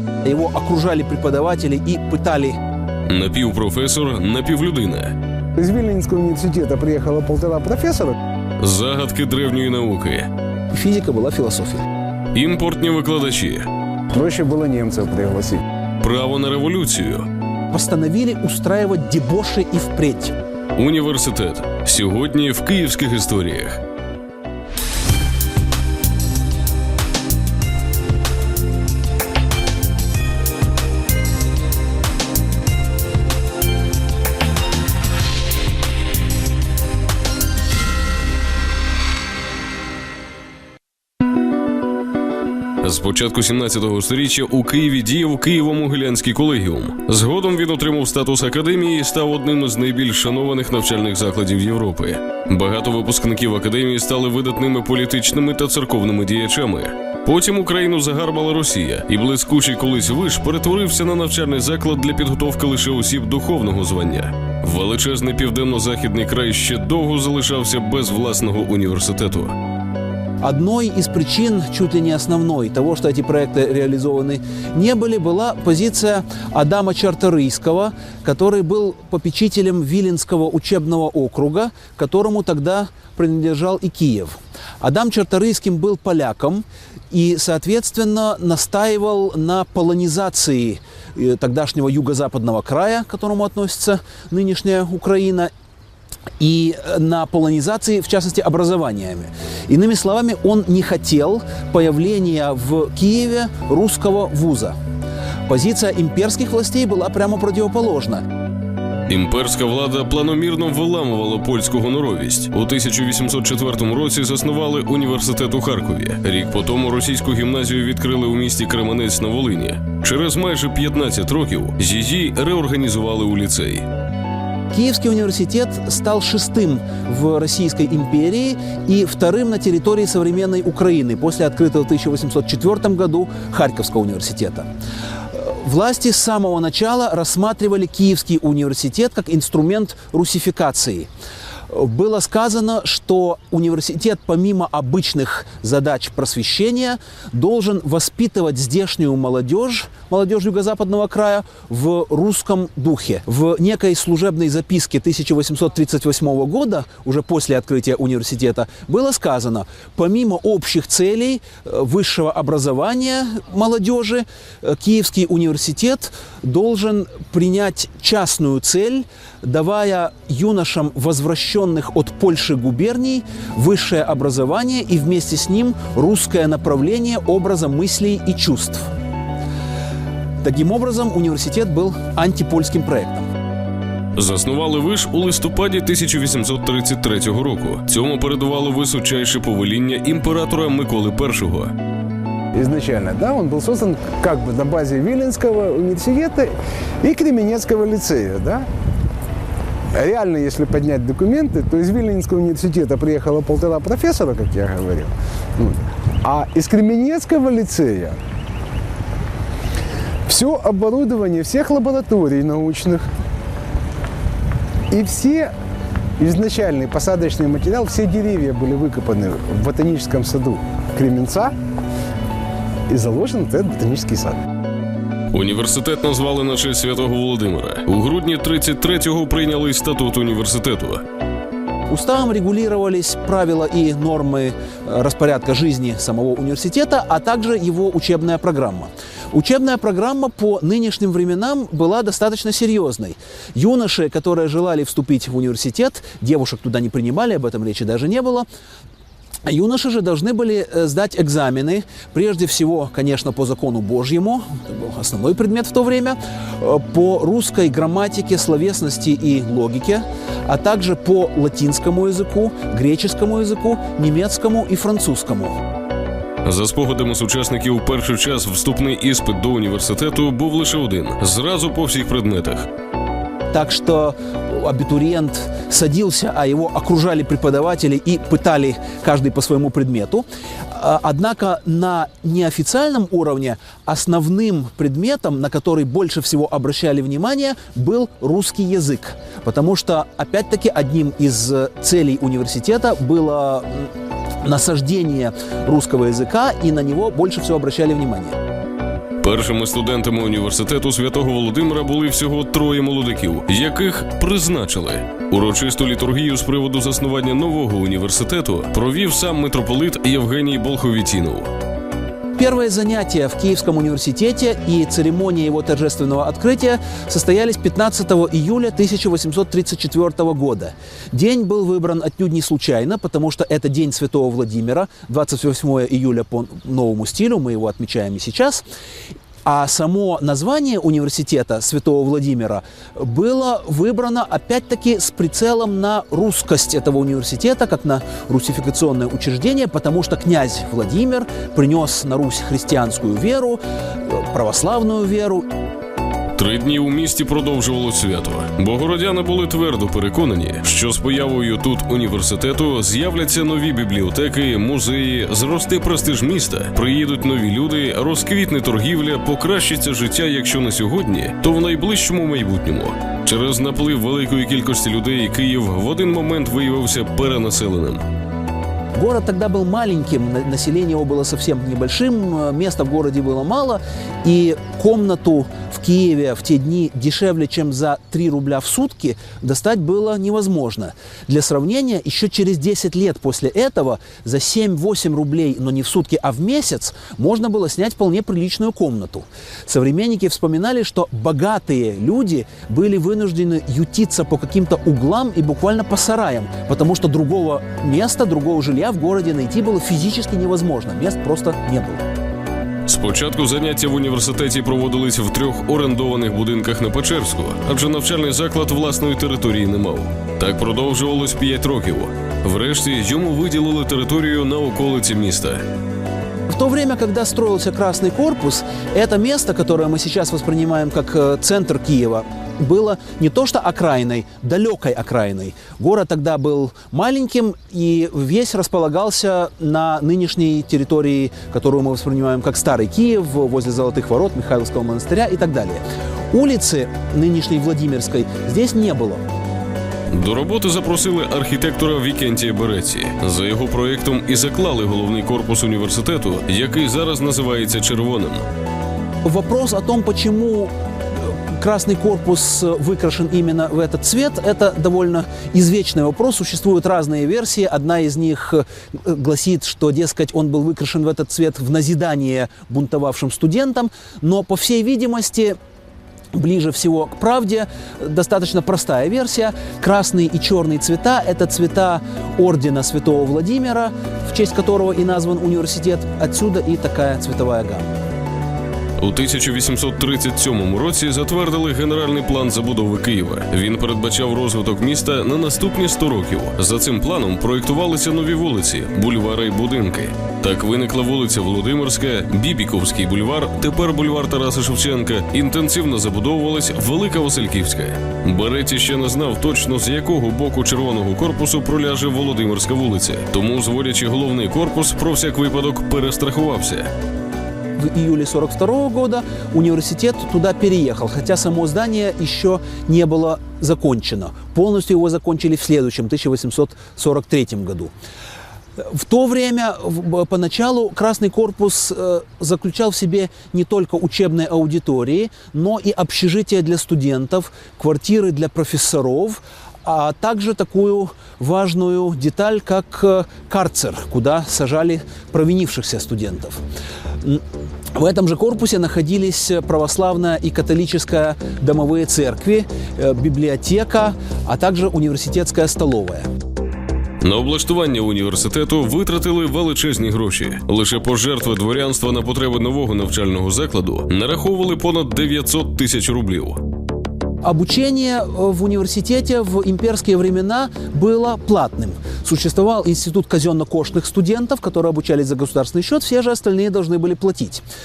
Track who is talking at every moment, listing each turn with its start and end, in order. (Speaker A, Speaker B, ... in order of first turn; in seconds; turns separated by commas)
Speaker A: 0.2-2.6, Speaker B: 3.1-5.2, Speaker C: 5.6-8.2, Speaker B: 8.6-10.3, Speaker A: 10.7-11.8, Speaker B: 12.3-13.7, Speaker C: 14.1-15.6, Speaker B: 16.0-17.3, Speaker A: 17.7-20.3, Speaker B: 20.8-23.8, Speaker B: 42.8-69.5, Speaker A: 70.4-95.5, Speaker A: 96.4-104.8, Speaker A: 105.5-108.2, Speaker B: 109.1-123.9, Speaker A: 124.7-134.7, Speaker A: 135.3-141.1, Speaker A: 141.7-178.9, Speaker A: 180.4-183.2, Speaker B: 184.2-191.7, Speaker C: 192.5-198.7, Speaker C: 199.9-208.2, Speaker C: 210.2-213.1, Speaker C: 214.9-215.5, Speaker C: 216.2-221.5, Speaker C: 222.9-224.4, Speaker B: 225.3-231.0, Speaker A: 231.9-248.4, Speaker A: 249.4-265.6, Speaker B: 266.4-272.7, Speaker A: 273.5-293.9, Speaker A: 294.4-298.4, Speaker B: 299.2-311.5, Speaker A: 312.4-328.6, Speaker A: 329.4-345.5, Speaker B: 346.4-368.0, Speaker A: 368.9-402.0, Speaker B: 402.9-415.6, Speaker A: 416.5-439.2, Speaker B: 440.1-448.4, Speaker A: 449.2-465.6, Speaker A: 466.3-477.9, Speaker B: 479.0-506.9, Speaker A: 507.8-517.9, Speaker A: 518.8-536.6, Speaker A: 537.9-546.3, Speaker B: 547.2-556.6, Speaker A: 557.4-567.6